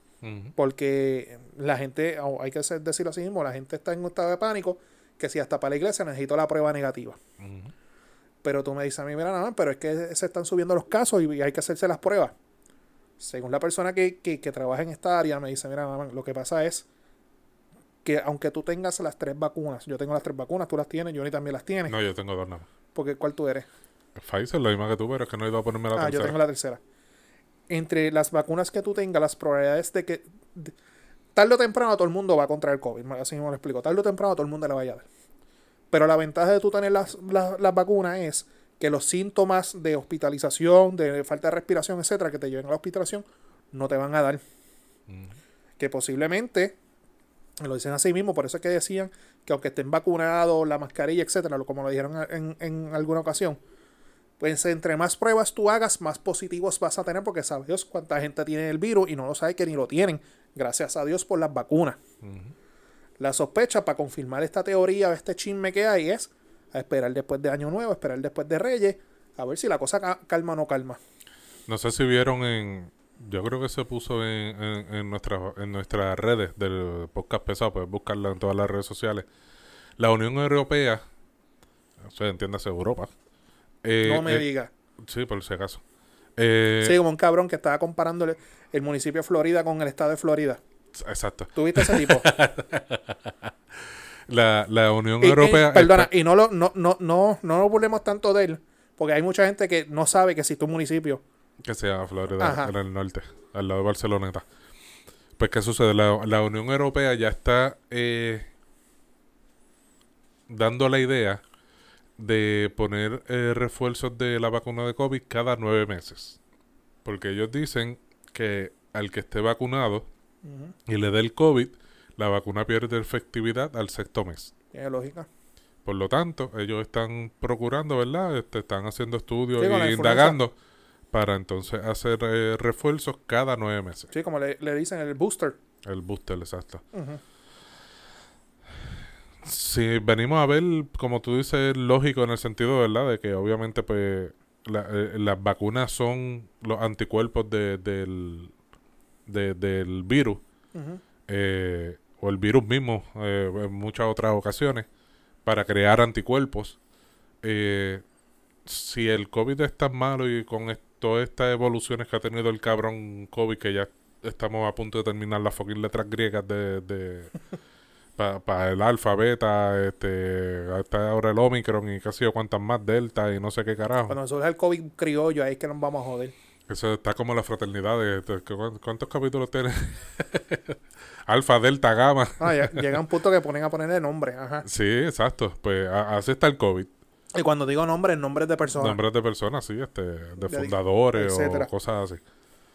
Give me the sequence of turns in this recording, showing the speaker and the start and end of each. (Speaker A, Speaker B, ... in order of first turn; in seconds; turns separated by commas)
Speaker A: 0.2-0.6, Speaker B: 0.6-7.2, Speaker A: 7.4-7.7, Speaker B: 8.4-12.3, Speaker B: 13.2-16.9, Speaker B: 18.0-21.9, Speaker A: 21.9-22.7, Speaker B: 22.9-23.7, Speaker A: 24.1-26.4, Speaker B: 25.9-26.8, Speaker B: 27.7-30.7, Speaker B: 31.4-35.0, Speaker B: 35.9-44.4, Speaker A: 45.1-45.4, Speaker B: 45.8-46.8, Speaker B: 47.6-53.6, Speaker B: 54.4-62.0, Speaker A: 62.2-62.5, Speaker B: 63.2-71.0, Speaker A: 71.7-79.3, Speaker A: 80.0-81.0, Speaker A: 82.0-83.1, Speaker A: 83.8-84.5, Speaker B: 84.0-84.7, Speaker A: 85.0-85.8, Speaker A: 86.4-87.0, Speaker B: 86.8-90.6, Speaker A: 90.9-96.1, Speaker B: 91.5-92.3, Speaker B: 95.2-101.2, Speaker A: 101.6-104.5, Speaker B: 102.4-102.7, Speaker A: 105.4-108.5, Speaker A: 110.5-111.4, Speaker A: 112.2-116.4, Speaker A: 117.0-120.1, Speaker B: 120.4-120.7, Speaker A: 120.9-124.5, Speaker B: 124.7-125.3, Speaker A: 125.8-130.5, Speaker B: 129.6-130.4, Speaker A: 131.1-134.1, Speaker B: 134.1-135.6, Speaker A: 135.8-136.8, Speaker B: 136.9-137.2, Speaker A: 139.4-148.5, Speaker A: 149.3-150.4, Speaker B: 150.7-151.0, Speaker A: 151.3-154.9, Speaker A: 155.4-156.8, Speaker A: 157.4-158.0, Speaker A: 158.7-167.3, Speaker A: 168.2-174.2, Speaker B: 174.1-176.3, Speaker A: 176.7-182.9, Speaker B: 182.4-184.7, Speaker A: 184.7-186.9, Speaker B: 187.4-189.0, Speaker A: 188.8-192.2, Speaker B: 190.4-191.7